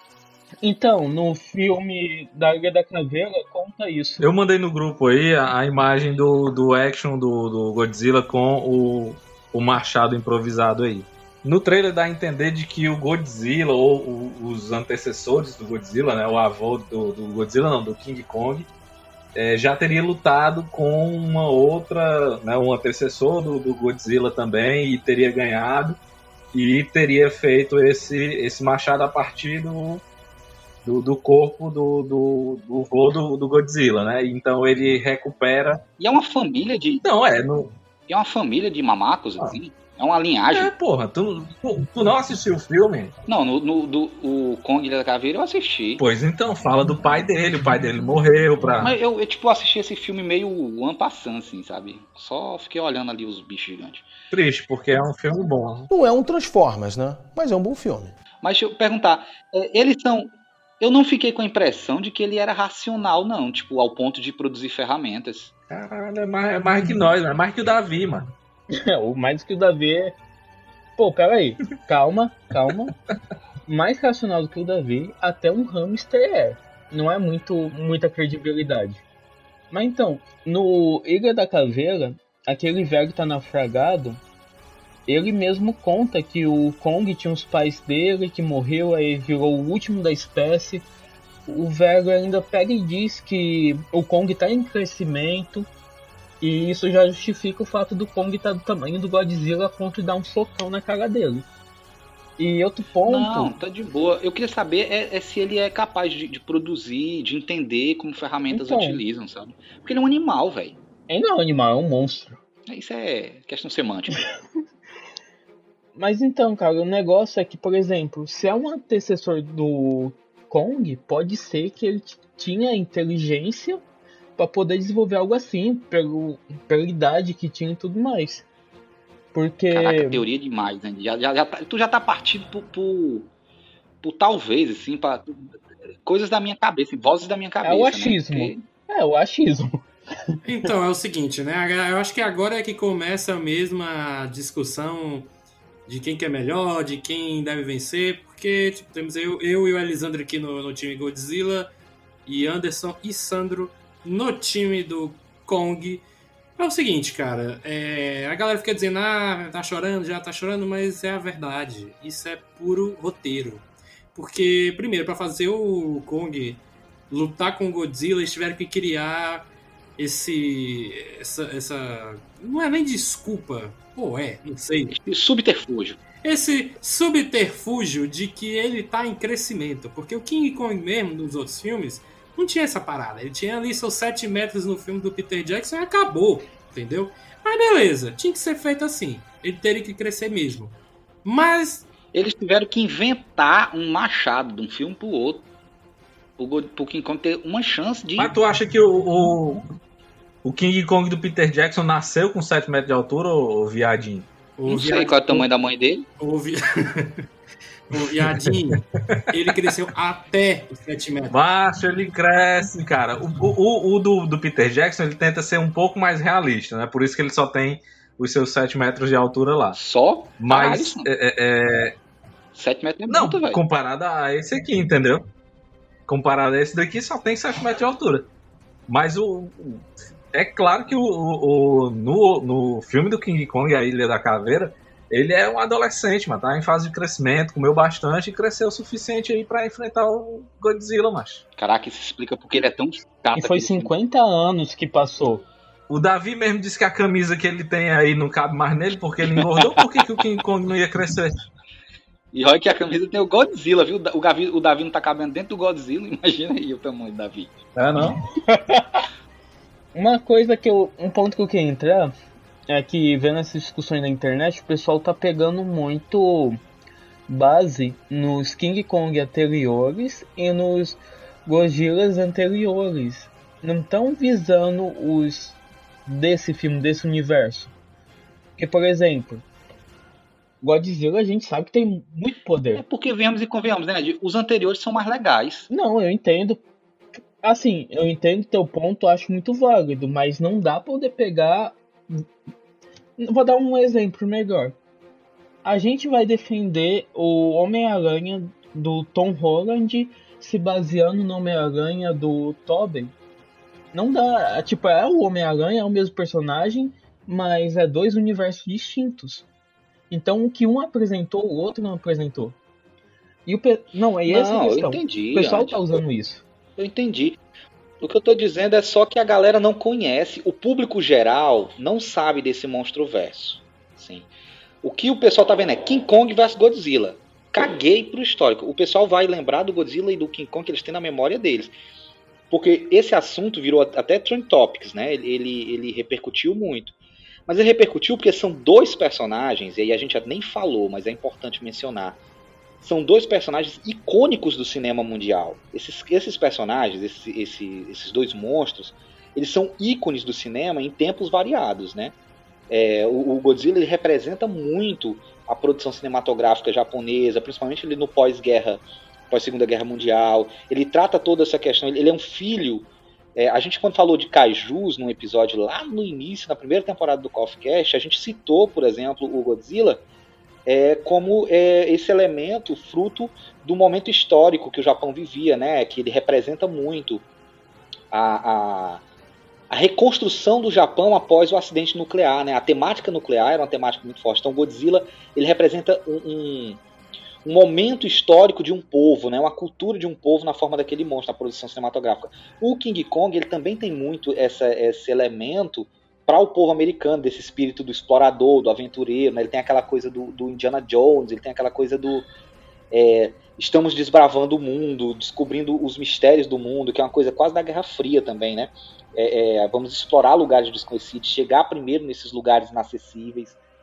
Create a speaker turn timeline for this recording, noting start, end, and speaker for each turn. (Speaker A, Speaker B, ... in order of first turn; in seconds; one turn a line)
Speaker A: 0.6-4.2
Speaker B: 4.2-18.7
Speaker B: 19.4-26.0
Speaker B: 26.5-30.0
Speaker B: 30.8-35.8
Speaker C: 36.0-37.0
Speaker B: 37.0-37.8
Speaker C: 38.1-40.7
Speaker B: 40.5-43.1
Speaker C: 43.3-46.0
Speaker B: 46.0-48.9
Speaker C: 48.8-54.1
Speaker B: 54.3-55.9
Speaker D: 55.9-58.1
Speaker C: 58.4-65.5
Speaker B: 65.7-68.3
Speaker A: 68.7-70.2
Speaker A: 71.0-72.9
Speaker A: 73.7-79.0
Speaker A: 79.7-84.2
Speaker A: 85.1-90.9
Speaker A: 91.5-95.7
Speaker A: 96.4-101.5
Speaker A: 102.4-103.5
Speaker C: 103.0-110.8
Speaker A: 108.5-109.0
Speaker A: 111.1-112.4
Speaker C: 112.7-114.2
Speaker A: 116.0-123.8
Speaker A: 124.4-128.5
Speaker A: 129.3-130.2
Speaker C: 129.7-133.3
Speaker C: 134.0-135.3
Speaker C: 136.1-138.6
Speaker A: 137.6-139.8
Speaker E: 140.5-145.3
Speaker E: 145.9-151.7
Speaker E: 152.3-156.0
Speaker E: 156.6-174.9
Speaker C: 174.9-176.0
Speaker E: 176.2-191.8
Speaker C: 192.1-195.5
Speaker C: 196.4-198.3
Speaker B: 198.2-199.6
Speaker B: 200.4-204.3
Speaker E: 204.6-205.4
Speaker C: 204.7-206.1
Speaker E: 206.2-207.3
Speaker E: 207.9-211.4
Speaker B: 208.0-208.5
Speaker B: 211.3-219.8
Speaker C: 219.7-221.1
Speaker B: 220.4-222.0
Speaker C: 222.5-223.6
Speaker B: 223.1-225.3
Speaker B: 226.1-228.3
Speaker B: 228.9-241.4
Speaker C: 241.6-243.9
Speaker A: 243.4-245.4
Speaker B: 245.9-251.3
Speaker C: 252.3-257.5
Speaker B: 257.8-258.2
Speaker A: 258.5-259.0
Speaker A: 259.9-262.1
Speaker A: 262.7-266.6
Speaker A: 267.3-277.7
Speaker A: 278.6-279.4
Speaker A: 280.6-282.8
Speaker C: 282.8-285.7
Speaker A: 285.7-286.6
Speaker A: 287.4-292.2
Speaker A: 293.2-294.7
Speaker A: 295.6-303.1
Speaker A: 303.9-309.4
Speaker A: 310.1-312.6
Speaker A: 313.4-316.4
Speaker C: 314.3-315.8
Speaker C: 316.8-317.4
Speaker C: 318.0-324.3
Speaker C: 324.8-331.7
Speaker C: 332.5-336.9
Speaker C: 337.5-342.2
Speaker C: 342.8-352.1
Speaker C: 352.7-370.0
Speaker C: 370.7-377.2
Speaker C: 378.1-379.0
Speaker C: 379.7-386.8
Speaker C: 387.4-402.3
Speaker C: 402.9-413.6